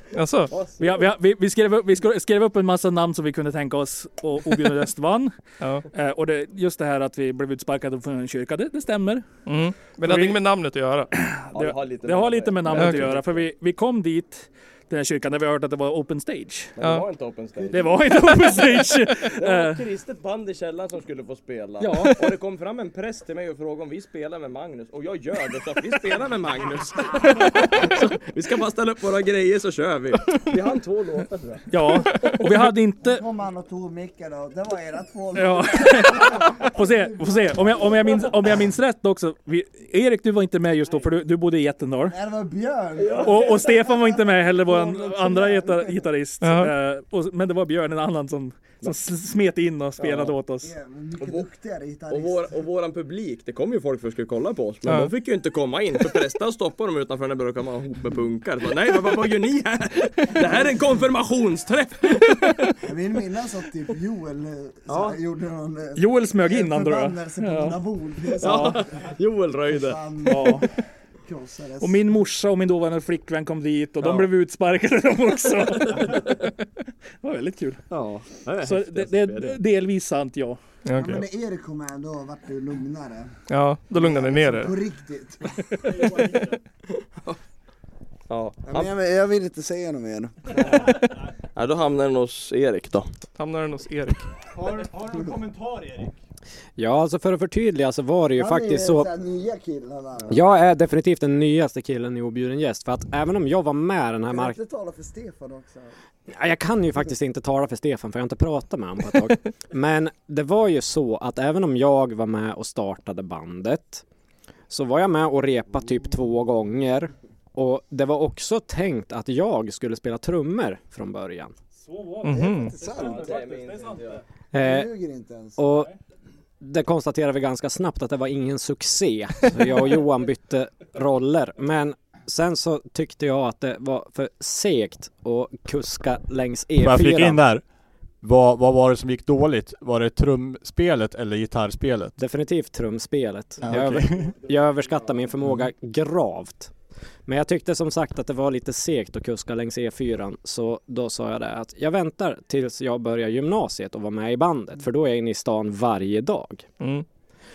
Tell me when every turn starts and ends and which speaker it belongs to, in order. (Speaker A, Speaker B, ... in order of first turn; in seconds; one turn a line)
Speaker A: 0.1-0.5
Speaker B: 0.5-1.0
Speaker C: 0.8-9.4
Speaker A: 5.6-5.9
Speaker A: 9.5-11.1
Speaker C: 10.0-10.4
Speaker C: 11.2-16.8
Speaker B: 11.5-13.4
Speaker A: 12.7-13.1
Speaker B: 16.8-18.1
Speaker A: 16.8-17.1
Speaker C: 17.7-19.8
Speaker B: 19.4-31.7
Speaker C: 21.8-22.2
Speaker C: 31.7-33.2
Speaker D: 33.0-37.9
Speaker C: 35.4-42.1
Speaker D: 42.1-46.0
Speaker B: 43.0-43.3
Speaker C: 43.2-50.7
Speaker A: 46.4-46.7
Speaker B: 50.0-50.3
Speaker D: 50.6-52.5
Speaker B: 51.2-51.5
Speaker B: 52.1-62.7
Speaker A: 54.9-55.1
Speaker D: 62.8-69.1
Speaker B: 64.9-65.2
Speaker C: 66.0-67.8
Speaker C: 68.4-68.8
Speaker B: 68.4-70.0
Speaker D: 69.7-70.7
Speaker C: 70.2-70.8
Speaker D: 71.2-72.0
Speaker C: 71.8-76.4
Speaker B: 74.0-74.3
Speaker B: 75.9-76.2
Speaker C: 77.2-77.9
Speaker B: 77.9-79.6
Speaker C: 78.6-80.6
Speaker A: 80.8-81.2
Speaker D: 81.0-86.4
Speaker A: 83.5-84.7
Speaker B: 88.3-88.9
Speaker D: 88.7-90.9
Speaker B: 90.5-91.0
Speaker B: 91.5-93.1
Speaker A: 93.4-94.3
Speaker E: 96.8-99.1
Speaker D: 98.4-100.4
Speaker E: 100.3-104.6
Speaker D: 104.3-106.0
Speaker E: 106.3-114.0
Speaker E: 114.7-121.5
Speaker C: 121.8-124.2
Speaker A: 122.2-122.8
Speaker D: 122.3-123.6
Speaker B: 123.0-124.2
Speaker E: 124.5-124.9
Speaker D: 124.6-125.6
Speaker E: 125.6-125.9
Speaker E: 126.6-137.4
Speaker F: 136.8-137.7
Speaker F: 138.2-142.2
Speaker E: 142.2-146.7
Speaker F: 143.7-144.1
Speaker C: 143.7-144.3
Speaker E: 147.3-156.7
Speaker A: 156.8-157.1